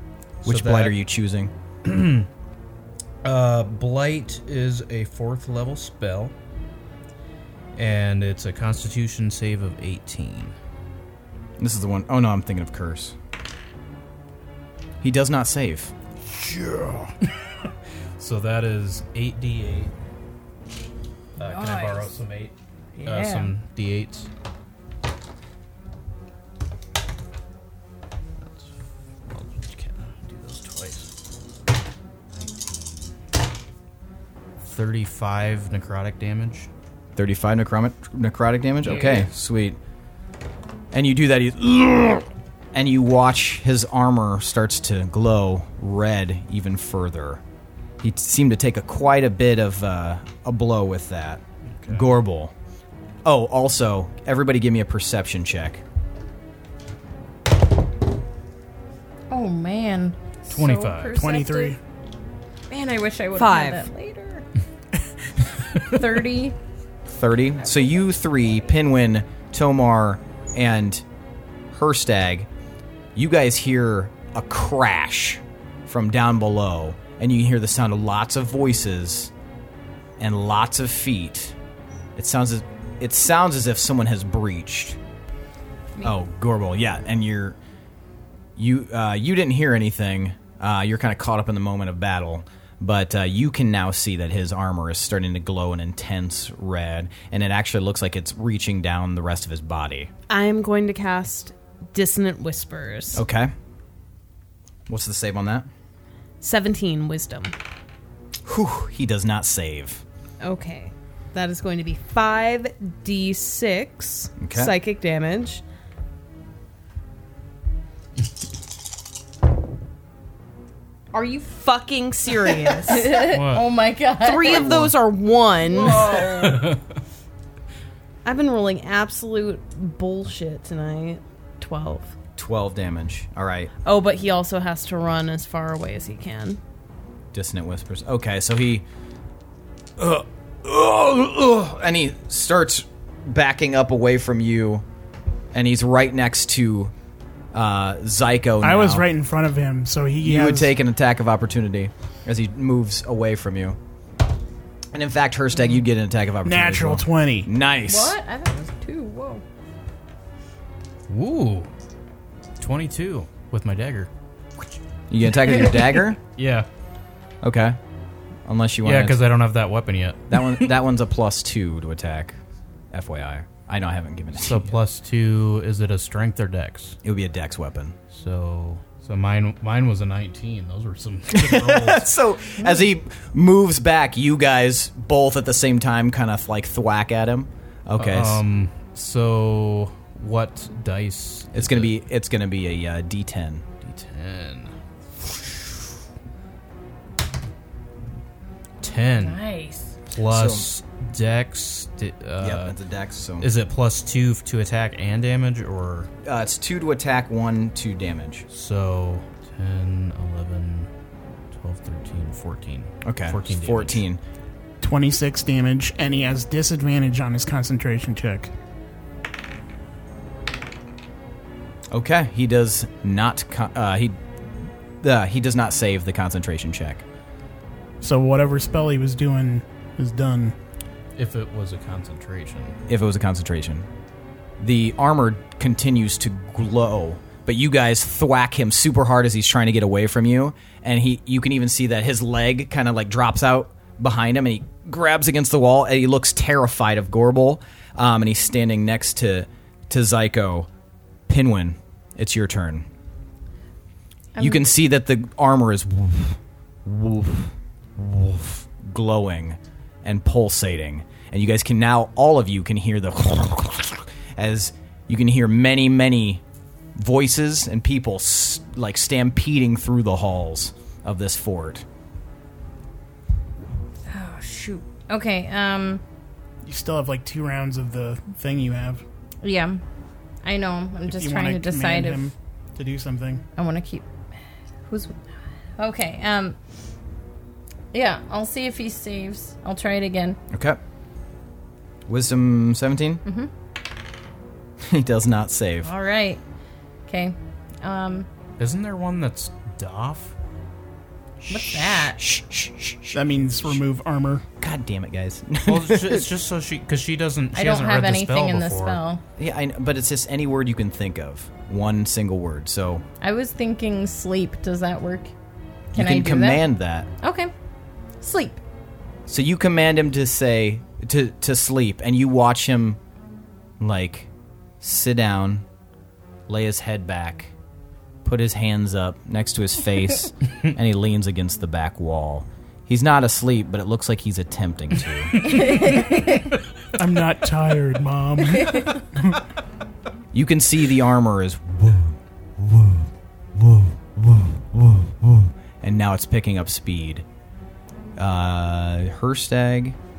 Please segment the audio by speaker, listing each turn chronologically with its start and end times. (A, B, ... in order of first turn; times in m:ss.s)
0:00.4-0:01.0 A
0:00.4-0:01.5 B
0:01.8-0:02.3 A
0:03.2-0:06.3 A
0:07.8-0:10.5 A
0:11.6-0:13.2 B
0:15.0-0:15.9 B
0:16.6-0:17.0 C
0:18.2-0:19.9 A
0:21.4-0:24.3 A
0:21.4-0:22.1 D
0:23.0-0:23.5 D
0:28.4-0:28.7 A
0:29.2-0:31.1 A
0:34.6-0:36.7 A
0:37.1-0:39.8 B
0:38.9-0:39.2 A
0:40.9-0:47.4 B
0:48.0-0:52.5 B
0:51.7-0:52.1 A
0:53.2-0:55.8 B
0:59.3-1:01.8 D
1:00.5-1:01.2 A
1:01.1-1:01.8 C
1:02.7-1:04.4 D
1:03.3-1:03.9 E
1:05.8-1:06.6 D
1:07.0-1:11.0 B
1:11.7-1:12.5 B
1:13.1-1:19.3 B
1:20.2-1:21.5 B
1:22.2-1:25.0 B
1:26.0-1:27.6 B
1:28.6-1:40.1 B
1:40.3-1:43.2 E
1:43.1-1:43.5 B
1:44.9-1:45.7 B
1:46.4-1:47.5 E
1:48.4-1:50.0 B
1:50.4-1:55.6 E
1:54.4-1:54.8 B
2:01.1-2:03.3 E
2:02.8-2:04.8 D
2:03.1-2:03.7 A
2:04.2-2:06.6 E
2:04.4-2:04.9 B
2:05.7-2:06.7 D
2:06.2-2:06.8 A
2:08.2-2:12.1 E
2:12.4-2:13.7 B
2:13.8-2:16.6 E
2:17.3-2:18.8 B
2:20.0-2:24.8 B
2:25.5-2:26.9 B
2:27.5-2:29.1 B
2:28.6-2:30.7 C
2:30.2-2:33.8 B
2:34.9-2:38.2 B
2:36.4-2:37.5 C
2:37.8-2:39.4 D
2:41.1-2:41.7 A
2:42.6-2:44.1 A
2:45.1-2:46.2 B
2:46.3-2:46.7 A
2:47.4-2:47.8 B
2:48.4-2:49.2 B
2:48.8-2:50.7 A
2:50.3-2:52.4 B
2:52.9-2:54.7 B
2:54.4-2:57.0 A
2:57.0-2:58.0 B
2:58.1-3:02.1 A
3:01.3-3:08.4 B
3:02.6-3:02.9 D
3:08.0-3:11.9 A
3:11.5-3:13.6 B
3:13.8-3:15.6 A
3:18.8-3:19.4 A
3:19.2-3:19.9 D
3:20.1-3:22.8 A
3:20.3-3:20.6 B
3:22.4-3:23.5 B
3:23.4-3:26.1 A
3:26.2-3:28.5 B
3:28.5-3:30.9 A
3:31.5-3:34.0 A
3:33.0-3:34.2 B
3:34.8-3:38.5 C
3:41.9-3:44.2 B
3:45.0-3:47.0 B
3:48.0-3:50.6 C
3:51.2-3:52.7 A
3:52.9-3:53.8 B
3:54.6-4:10.7 B
4:11.3-4:12.8 B
4:14.3-4:14.7 D
4:14.4-4:26.4 B
4:27.0-4:31.8 B
4:34.1-4:36.0 D
4:36.6-4:39.0 C
4:39.4-4:39.8 D
4:40.4-4:42.3 D
4:41.0-4:43.4 C
4:43.6-4:44.1 D
4:44.8-4:46.6 D
4:47.9-4:50.4 D
4:50.5-4:50.8 B
4:52.1-4:53.2 B
4:53.2-4:53.5 D
4:54.8-4:55.9 B
4:55.8-4:56.4 D
4:57.1-4:58.3 D
4:58.6-5:00.3 A
5:01.4-5:03.8 B
5:01.5-5:02.2 D
5:03.1-5:04.4 C
5:04.6-5:06.3 B
5:05.6-5:09.0 A
5:07.5-5:09.2 D
5:09.4-5:13.0 B
5:13.2-5:15.3 D
5:15.9-5:16.6 D
5:15.9-5:17.1 B
5:17.2-5:17.5 D
5:18.2-5:18.6 D
5:19.3-5:23.0 B
5:23.8-5:24.3 B
5:24.8-5:25.6 B
5:26.5-5:27.5 B
5:28.2-5:35.4 B
5:35.4-5:36.5 D
5:36.9-5:39.4 C
5:38.6-5:38.9 D
5:40.3-5:47.2 B
5:48.2-5:50.0 B